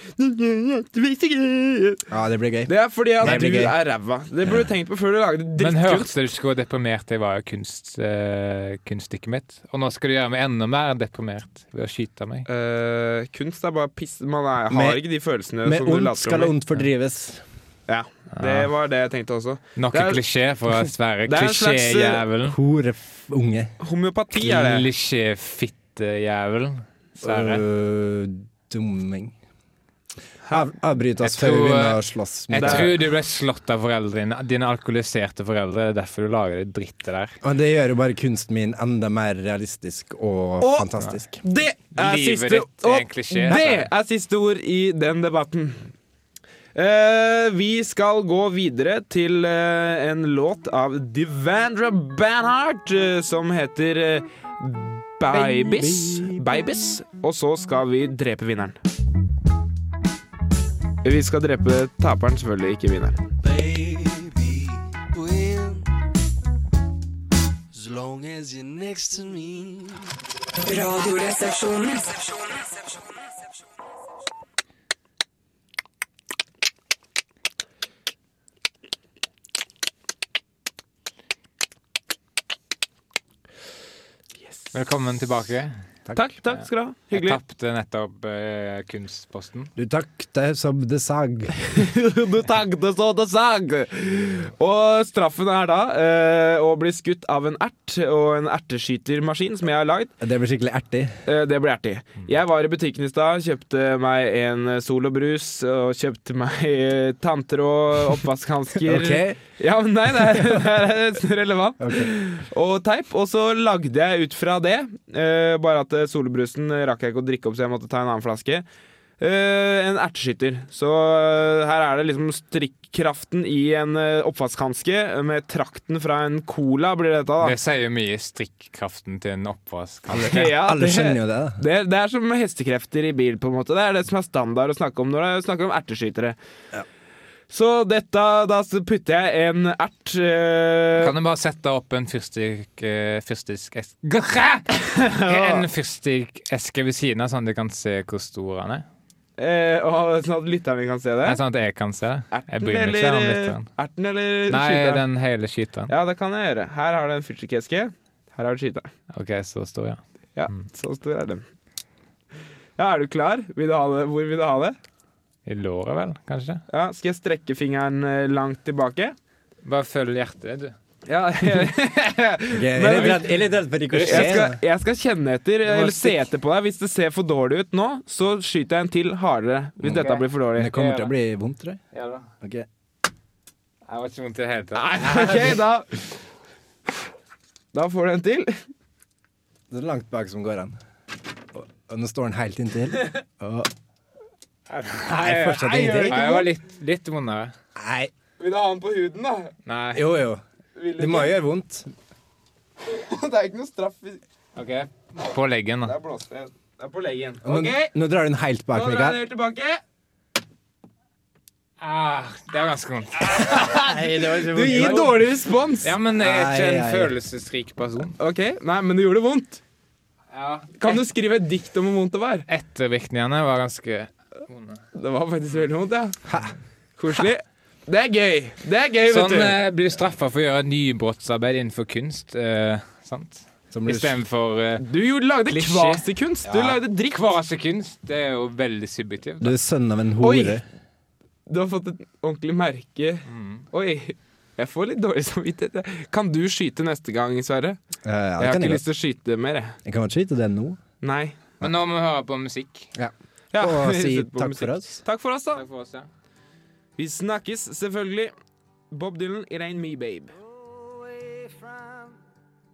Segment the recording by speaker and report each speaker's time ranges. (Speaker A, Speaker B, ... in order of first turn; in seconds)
Speaker A: 0.2-2.1, 2.7-6.2, 12.5-16.5, 17.9-20.2, 21.3-22.2, 23.8-24.9, 32.6-33.0, 40.6-45.9, 46.8-58.8, 61.0-63.2, 86.2-87.4, 91.6-100.1, 101.3-118.7, 119.2-127.5, 130.2-136.4, 137.5-141.1, 144.7-145.7, 149.4-151.4, 152.3-155.0, 155.9-158.9, 160.4-161.4, 162.8-164.8, 166.7-169.2, 171.1-173.3, 174.0-181.0, 184.8-186.1, 187.7-188.6, 195.6-196.5, 198.4-199.5, 200.8-201.3, 202.8-204.2, 205.8-207.9, 208.7-209.8, 213.5-215.9, 218.2-219.6, 220.8-222.5, 224.9-226.2, 227.0-229.6, 234.8-237.1, 240.2-240.6, 241.5-247.8, 248.4-249.8, 251.0-251.4, 253.5-255.6, 257.0-258.3, 258.9-260.4
Speaker B: 2.1-3.8, 14.7-15.0, 15.6-17.4, 22.4-23.7, 27.2-29.4, 30.5-33.0, 37.4-41.4, 55.3-56.7, 89.8-91.6, 100.2-101.2, 108.8-109.4, 111.8-112.1, 130.1-131.6, 172.5-174.6, 175.7-176.2, 179.8-181.8, 182.4-182.7, 189.7-190.8, 191.6-193.7, 195.1-196.4, 197.8-198.1, 199.9-200.4, 201.0-201.9, 207.4-209.2, 213.4-215.2, 216.2-217.2, 226.3-226.6, 233.7-234.2, 236.4-236.8, 239.4-240.7, 248.1-248.8, 249.9-250.8, 253.0-255.0, 260.7-262.1
Speaker C: 5.6-12.5, 18.3-18.7, 19.8-22.6, 24.4-27.6, 31.2-37.4, 42.0-43.9, 84.7-85.8, 86.5-89.7, 127.4-130.4, 141.0-144.7, 145.2-148.8, 151.3-153.7, 154.5-155.9, 159.1-160.0, 165.5-166.6, 169.6-170.8, 172.9-173.3, 173.9-174.3, 179.9-181.1, 181.9-182.3, 183.9-185.6, 194.7-197.6, 199.7-200.1, 204.6-205.9, 211.8-213.9, 214.7-215.0, 215.8-218.2, 220.3-221.0, 222.5-224.8, 229.1-234.8, 235.5-236.1, 237.0-239.6, 243.3-243.7, 251.6-252.9, 255.6-256.1
Speaker D: 63.4-65.9, 67.7-70.1
Speaker E: 70.7-73.3